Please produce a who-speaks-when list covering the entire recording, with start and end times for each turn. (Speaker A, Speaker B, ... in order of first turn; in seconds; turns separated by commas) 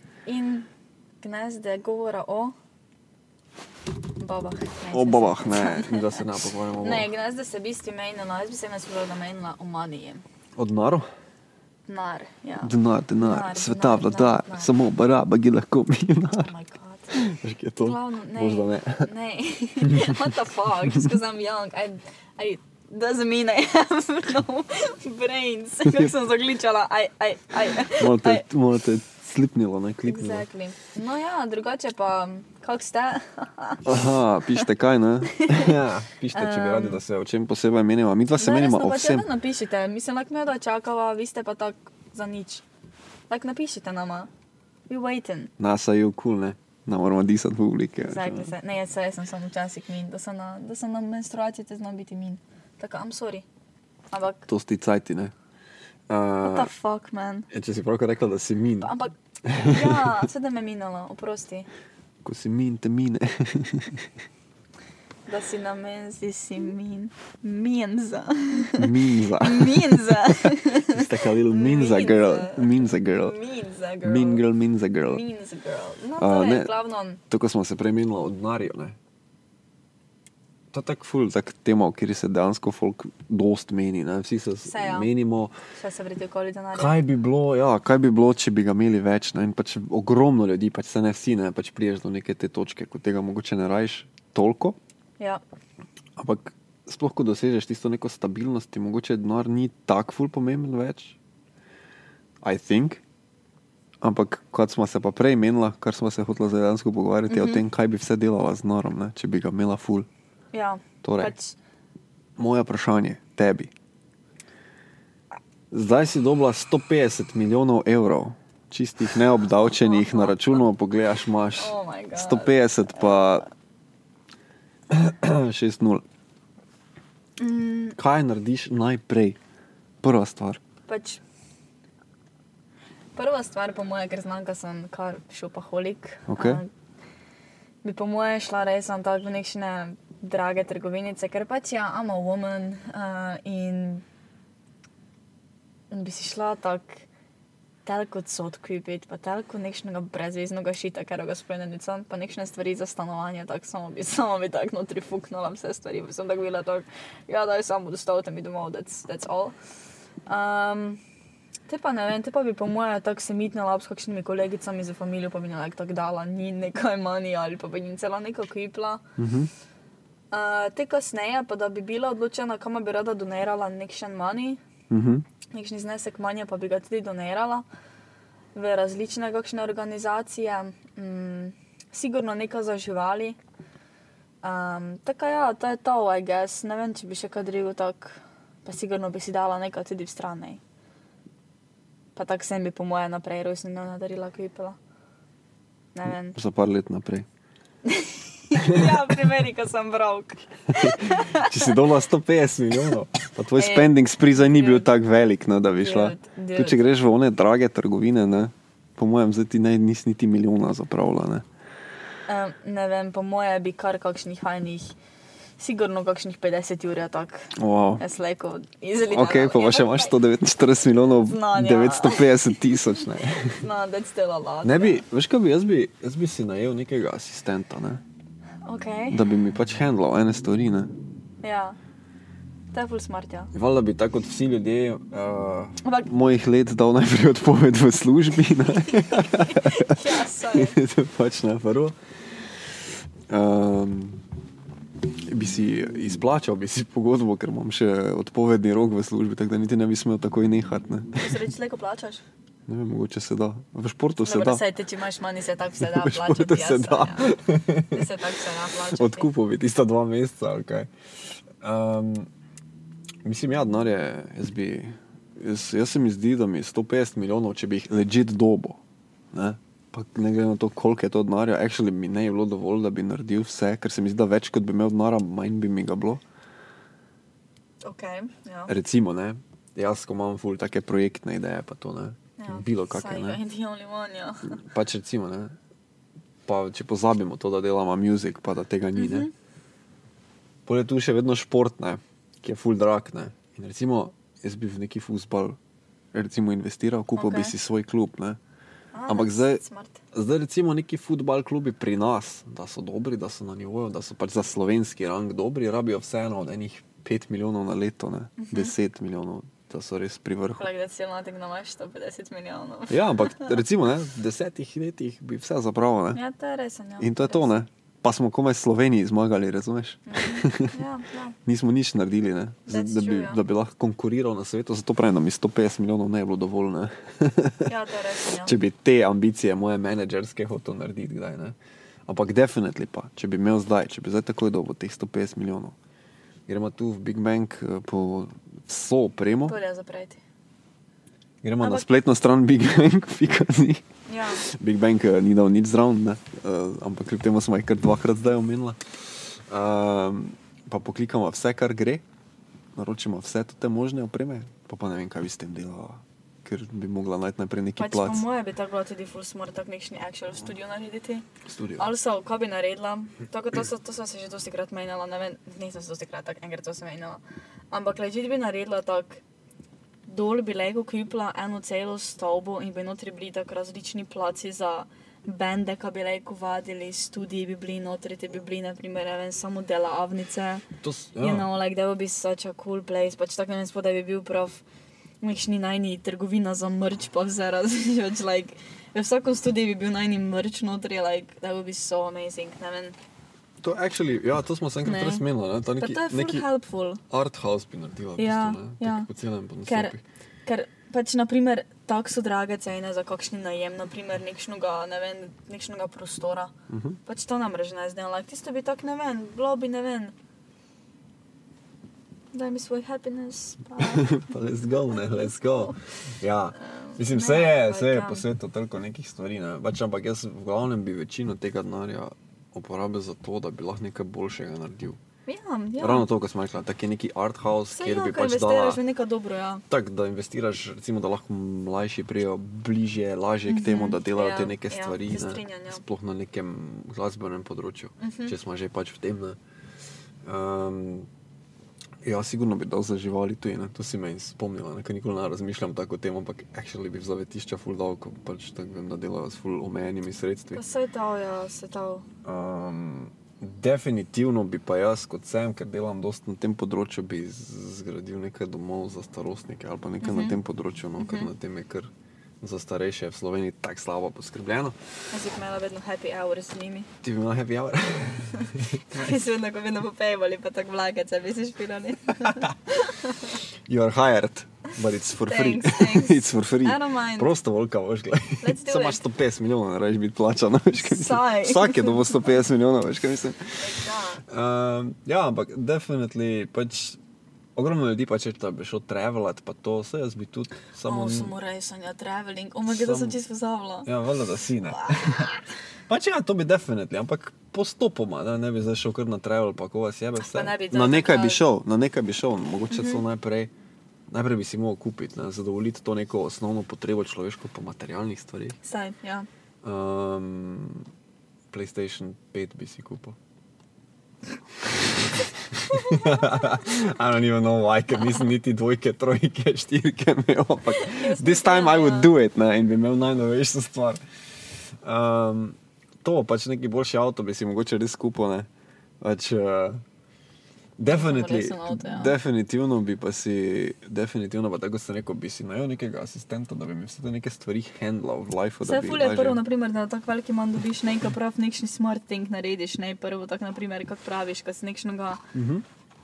Speaker A: 0.2-0.7, Speaker A: 1.2-2.5, Speaker A: 4.2-10.2, Speaker B: 4.9-7.1, Speaker B: 10.6-11.1, Speaker A: 11.9-14.7, Speaker B: 12.6-16.5, Speaker A: 16.4-17.2, Speaker B: 17.1-19.1, Speaker A: 17.8-28.4, Speaker B: 19.8-20.2, Speaker B: 25.9-26.1, Speaker B: 28.0-30.4, Speaker A: 30.0-34.6, Speaker B: 33.8-39.2, Speaker A: 35.3-35.7, Speaker A: 36.3-37.0, Speaker A: 38.4-42.6, Speaker A: 43.3-44.3, Speaker A: 44.9-45.5, Speaker B: 45.6-48.5, Speaker A: 48.0-53.5, Speaker A: 54.1-54.5, Speaker B: 54.5-55.3, Speaker B: 56.1-56.7, Speaker A: 56.4-57.5, Speaker B: 57.5-60.1, Speaker A: 58.8-61.7, Speaker B: 62.2-64.1, Speaker A: 65.3-74.4, Speaker B: 68.8-70.1, Speaker B: 70.9-73.3, Speaker B: 74.0-75.2, Speaker A: 75.0-77.2, Speaker B: 76.2-76.7, Speaker B: 77.3-79.0, Speaker B: 80.7-85.5, Speaker A: 84.6-85.1, Speaker A: 85.8-87.0, Speaker B: 86.7-94.8, Speaker B: 96.2-101.2, Speaker B: 102.4-103.0, Speaker B: 104.0-110.1, Speaker A: 107.3-107.6, Speaker A: 110.5-111.5, Speaker B: 111.0-111.3, Speaker B: 112.4-113.7, Speaker B: 115.7-123.5, Speaker A: 119.8-120.5, Speaker A: 121.5-122.6, Speaker B: 124.9-126.0, Speaker A: 127.4-128.0, Speaker B: 128.0-129.4, Speaker B: 130.0-130.6, Speaker A: 130.9-131.2, Speaker A: 133.1-136.7, Speaker B: 136.3-136.6, Speaker A: 137.8-144.0, Speaker A: 145.9-147.1, Speaker A: 147.8-159.5, Speaker A: 160.3-161.0, Speaker A: 161.7-169.0, Speaker B: 169.2-169.5, Speaker A: 170.3-174.6, Speaker B: 174.9-175.2, Speaker A: 175.5-177.6, Speaker A: 178.5-183.4, Speaker A: 184.4-190.6, Speaker A: 192.1-194.8, Speaker A: 195.9-196.4, Speaker B: 196.1-197.3, Speaker A: 197.8-201.7, Speaker B: 198.6-199.2, Speaker B: 200.7-211.4, Speaker A: 203.5-204.9, Speaker A: 205.8-206.9, Speaker A: 212.3-214.9, Speaker A: 215.6-220.1, Speaker B: 217.5-218.0, Speaker B: 219.1-223.6, Speaker A: 221.2-223.0, Speaker A: 223.6-225.0, Speaker B: 224.6-228.0, Speaker A: 228.7-229.2, Speaker B: 229.1-230.9, Speaker A: 231.4-231.8, Speaker A: 232.7-233.5, Speaker B: 233.5-241.9, Speaker A: 239.2-240.8, Speaker B: 243.3-244.2, Speaker B: 245.2-251.4, Speaker A: 251.1-252.2, Speaker B: 252.7-254.6, Speaker A: 254.2-259.3, Speaker B: 255.8-258.1, Speaker B: 258.9-260.9, Speaker B: 261.6-262.3, Speaker B: 263.2-268.8, Speaker B: 269.3-276.2, Speaker A: 277.8-278.7, Speaker B: 278.7-283.4, Speaker A: 282.4-284.6, Speaker B: 284.5-285.6, Speaker B: 286.4-289.3, Speaker A: 288.9-289.3, Speaker B: 290.6-295.6, Speaker B: 296.1-298.4, Speaker A: 297.2-297.5, Speaker A: 298.9-300.0, Speaker B: 299.1-299.6, Speaker B: 300.1-310.7, Speaker A: 308.4-308.7, Speaker A: 310.6-313.6, Speaker B: 312.9-316.2, Speaker A: 316.1-317.6, Speaker B: 317.0-320.7, Speaker A: 320.1-321.4, Speaker B: 321.4-327.7, Speaker A: 322.7-323.4, Speaker A: 327.6-328.6, Speaker B: 328.4-331.6, Speaker B: 332.1-335.8, Speaker B: 336.5-339.6, Speaker A: 339.5-340.2, Speaker B: 341.4-343.8, Speaker A: 341.6-341.9, Speaker A: 344.1-344.4, Speaker B: 344.4-352.0, Speaker B: 352.8-358.2, Speaker A: 357.8-369.2, Speaker B: 361.4-361.9, Speaker A: 370.1-380.6, Speaker B: 380.8-381.5, Speaker A: 381.2-384.6, Speaker A: 385.2-392.9, Speaker B: 393.6-396.5, Speaker A: 394.8-395.2, Speaker A: 395.8-397.0, Speaker B: 397.1-400.0, Speaker A: 398.2-399.1, Speaker A: 399.6-399.9, Speaker A: 400.4-406.5, Speaker B: 406.7-407.0, Speaker A: 407.1-410.1, Speaker A: 412.3-414.2, Speaker B: 413.8-425.0, Speaker A: 414.9-415.8, Speaker A: 416.6-418.2, Speaker A: 425.3-426.1, Speaker B: 425.8-428.8, Speaker A: 427.7-429.6, Speaker B: 429.7-439.4, Speaker A: 433.5-435.8, Speaker A: 438.0-438.3, Speaker B: 440.2-441.1, Speaker B: 442.0-450.6, Speaker A: 450.5-452.1, Speaker B: 452.2-461.9, Speaker A: 460.0-460.4, Speaker A: 461.0-461.3, Speaker B: 462.4-464.8, Speaker A: 465.1-466.9, Speaker B: 467.0-468.9, Speaker A: 468.9-473.4, Speaker B: 473.6-487.0, Speaker A: 475.3-477.3, Speaker A: 478.4-479.0, Speaker A: 480.8-482.2, Speaker A: 483.6-484.2, Speaker B: 487.6-491.3, Speaker A: 490.8-493.9, Speaker B: 492.7-493.2, Speaker B: 493.8-503.5, Speaker A: 494.7-495.3, Speaker A: 500.2-501.4, Speaker A: 502.7-503.0, Speaker B: 504.1-508.6, Speaker A: 508.6-509.3, Speaker B: 509.6-510.9, Speaker B: 511.5-513.2, Speaker B: 514.6-524.0, Speaker A: 515.7-516.5, Speaker A: 520.8-522.1, Speaker B: 524.8-528.5, Speaker B: 529.0-529.8, Speaker B: 530.8-539.4, Speaker A: 530.9-532.1, Speaker A: 538.6-545.2, Speaker B: 545.3-545.6